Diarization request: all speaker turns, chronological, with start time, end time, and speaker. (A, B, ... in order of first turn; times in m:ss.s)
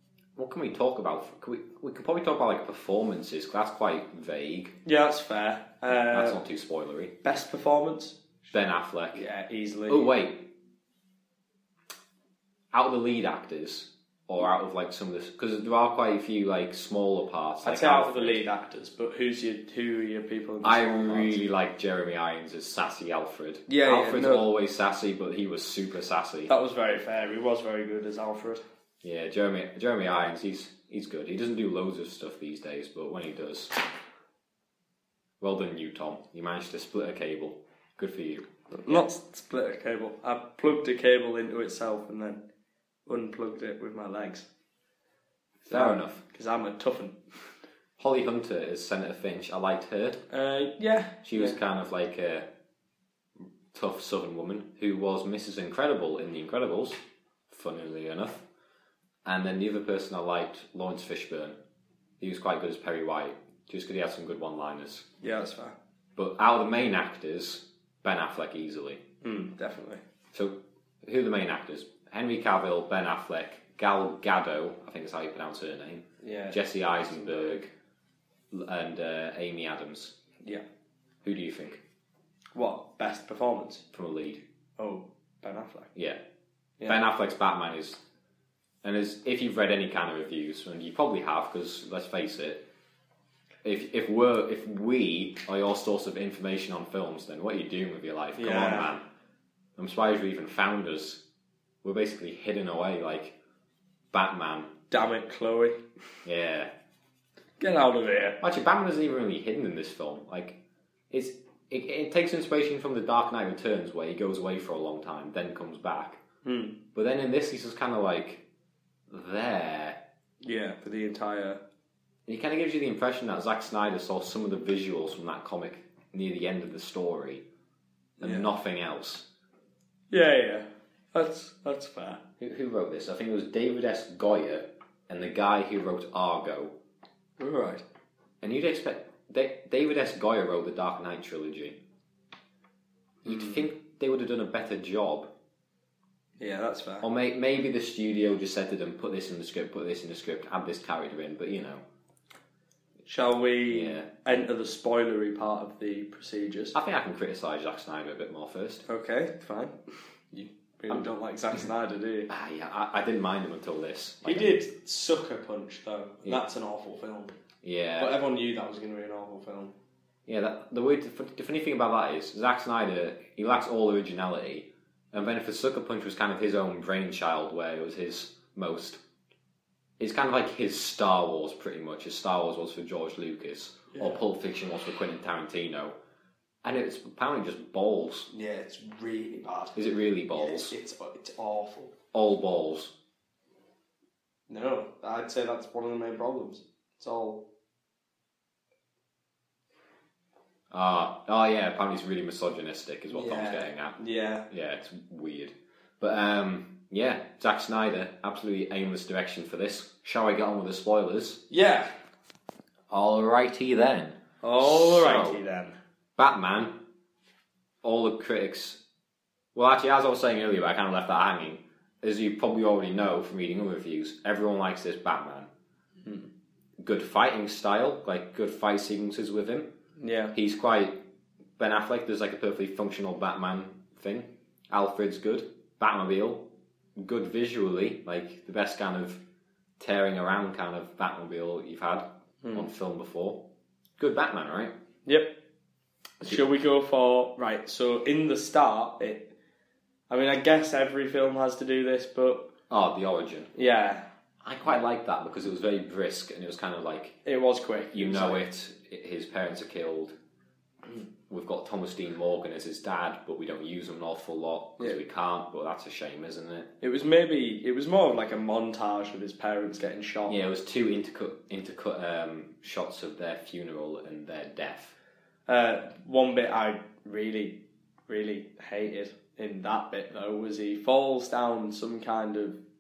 0:00.4-0:04.8 A
0:04.8-0:06.4 B
0:05.9-0:07.2 A
0:07.2-0:08.3 B
0:08.5-0:09.2 A
0:09.1-0:10.1 B
0:09.9-0:10.5 A
0:12.7-0:18.4 A
0:17.6-0:21.4 B
0:20.6-0:26.5 A
0:23.7-0:24.5 B
0:26.5-0:28.6 B
0:29.0-0:33.7 A
0:35.4-0:39.1 A
0:38.7-0:42.4 B
0:43.0-0:44.5 B
0:45.6-0:46.2 A
0:45.7-0:47.2 B
0:48.0-0:50.2 A
0:50.3-0:51.6 B
0:51.2-0:52.5 A
0:53.7-0:58.4 A
0:59.2-1:01.6 A
1:02.2-1:05.1 A
1:05.2-1:05.8 B
1:06.2-1:09.0 A
1:09.2-1:10.0 B
1:10.3-1:17.7 A
1:16.2-1:17.6 B
1:18.5-1:20.2 A
1:21.2-1:21.8 A
1:22.5-1:23.8 B
1:23.9-1:24.4 A
1:24.8-1:25.9 B
1:25.9-1:26.2 A
1:26.8-1:28.0 A
1:28.8-1:32.7 A
1:33.6-1:39.0 A
1:38.4-1:38.9 B
1:39.8-1:41.2 A
1:41.8-1:43.4 A
1:44.1-1:44.8 A
1:44.9-1:45.8 B
1:46.2-1:46.7 A
1:47.6-1:48.4 B
1:48.4-1:50.6 A
1:51.1-1:56.2 A
1:56.4-1:56.8 B
1:56.9-1:58.4 A
1:59.1-2:00.0 A
2:00.4-2:01.6 B
2:02.2-2:07.4 A
2:08.2-2:09.3 A
2:08.2-2:08.5 B
2:10.1-2:12.2 B
2:12.4-2:16.7 A
2:17.4-2:17.8 B
2:18.4-2:21.8 A
2:23.2-2:25.3 A
2:23.2-2:23.6 B
2:26.4-2:27.1 B
2:27.0-2:31.8 A
2:33.0-2:36.8 B
2:33.7-2:34.1 A
2:36.7-2:38.8 A
2:38.8-2:39.8 B
2:40.3-2:42.3 B
2:42.3-2:44.5 A
2:44.2-2:47.3 B
2:47.6-2:48.1 A
2:48.0-2:49.7 B
2:50.2-2:59.0 A
3:00.0-3:06.0 A
3:03.9-3:04.2 B
3:06.6-3:08.3 A
3:08.3-3:09.8 B
3:09.8-3:10.8 A
3:10.3-3:12.0 B
3:12.1-3:12.9 A
3:14.5-3:17.4 B
3:20.7-3:31.4 A
3:23.1-3:24.5 B
3:31.5-3:31.9 B
3:32.9-3:35.4 A
3:34.4-3:35.8 B
3:36.2-3:36.8 A
3:37.8-3:38.8 A
3:39.5-3:45.5 A
3:46.0-3:46.3 B
3:46.8-3:49.7 A
3:50.0-3:50.3 B
3:50.3-3:51.0 A
3:51.6-3:59.2 A
3:59.8-4:03.4 A
4:02.4-4:02.7 B
4:04.0-4:04.7 A
4:05.0-4:05.4 B
4:06.2-4:09.3 B
4:10.1-4:12.5 B
4:12.7-4:13.5 A
4:13.5-4:14.1 B
4:14.4-4:17.2 A
4:17.2-4:18.4 B
4:17.9-4:20.1 A
4:21.3-4:26.7 A
4:26.8-4:30.4 B
4:30.3-4:34.9 A
4:35.5-4:42.6 B